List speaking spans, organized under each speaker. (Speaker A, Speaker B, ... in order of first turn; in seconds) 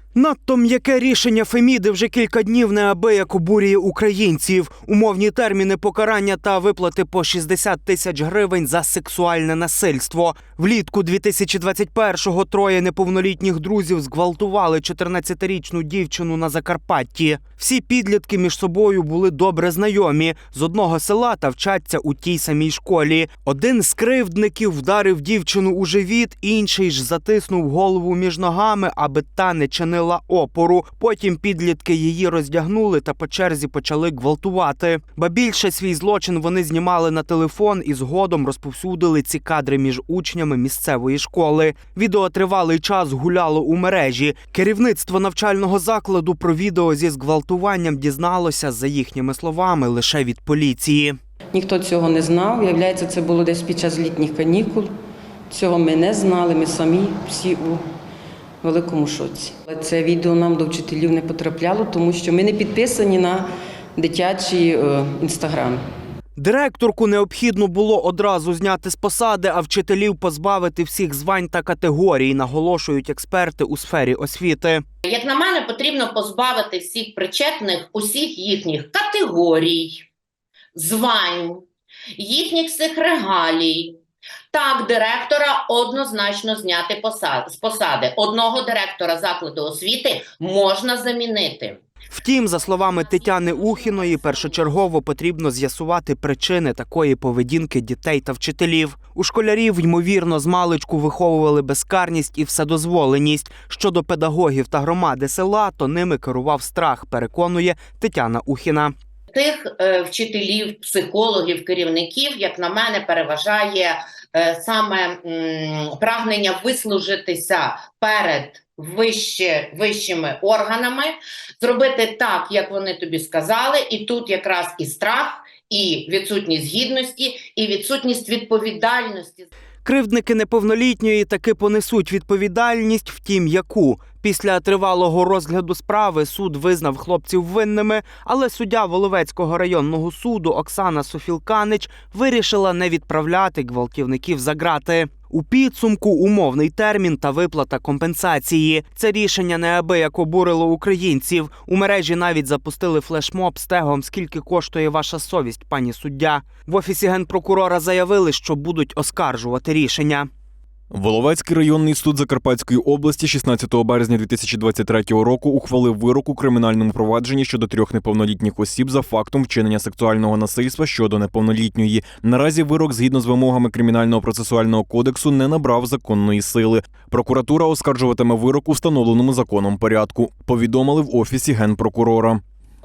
Speaker A: 0.1-51.2, 66.3-74.8, 92.1-108.9, 129.8-160.3
Speaker B: 51.5-54.9, 55.5-57.8, 58.6-65.8
Speaker C: 75.0-80.0, 80.7-81.6, 82.2-84.0, 84.5-91.8, 92.8-94.6, 109.3-129.5
Speaker D: 160.9-182.4